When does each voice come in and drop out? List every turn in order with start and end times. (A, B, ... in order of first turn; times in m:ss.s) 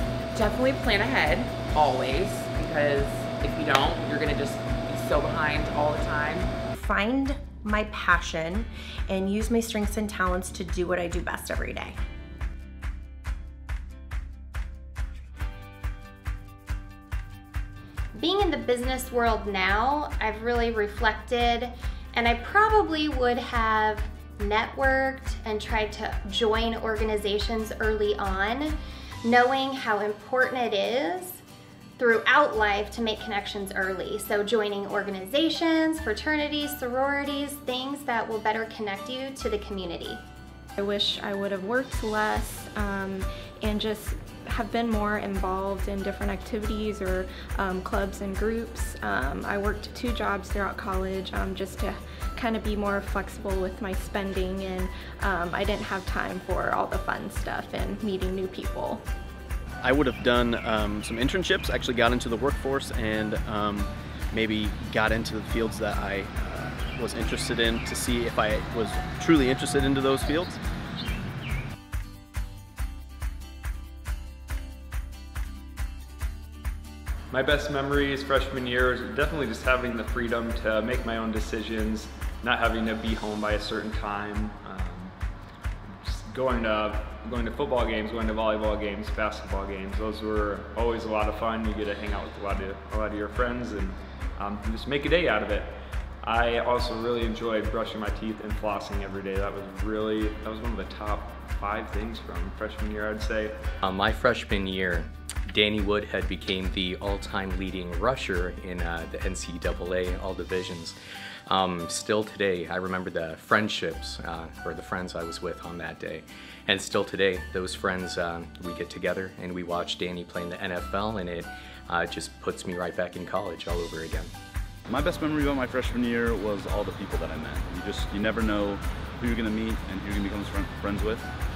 0:00.3-0:06.5 A
0:06.8-0:12.0 B
0:18.2-0:31.4 C
0:32.0-0:40.2 C
0:40.8-0:59.0 D
0:59.9-1:03.8 E
1:04.3-1:10.5 E
1:17.3-1:25.1 F
1:26.0-1:43.6 F
1:43.8-1:51.0 G
1:51.5-2:04.3 G
2:04.9-2:11.3 H